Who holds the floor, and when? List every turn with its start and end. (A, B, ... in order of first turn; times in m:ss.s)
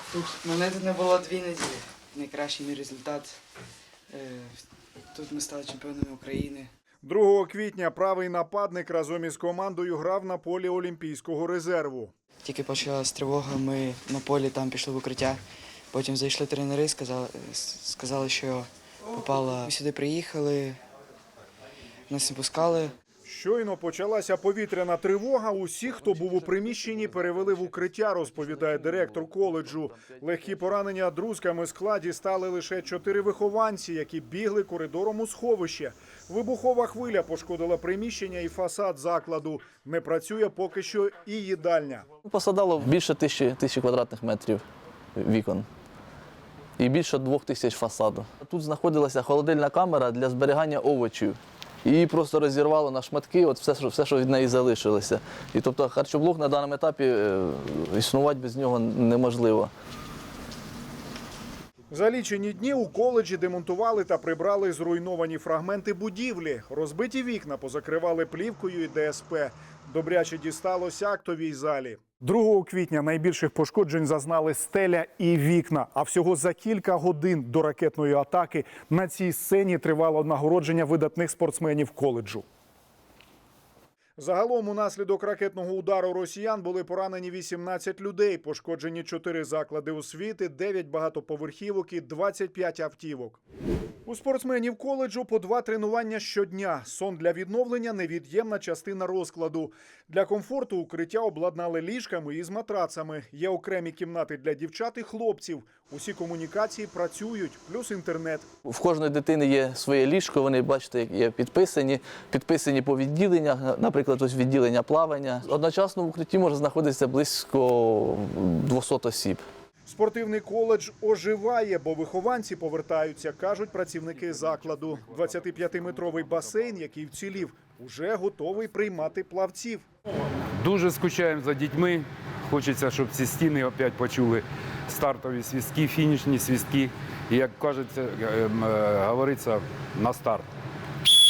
0:00.1-0:03.4 A
0:04.1-0:06.7 A
0:07.0-0:12.1 B
0:12.4-0:20.8 A
0:22.1-0:22.9 A
0:23.2-0:42.1 B
0:42.2-0:44.6 C
0:45.2-0:45.6 C
0:46.8-0:59.7 C
1:01.9-1:22.4 B
1:24.2-1:33.4 B
1:34.0-1:48.5 B
1:48.6-1:59.4 C
1:59.8-2:09.8 B
2:10.6-2:20.5 D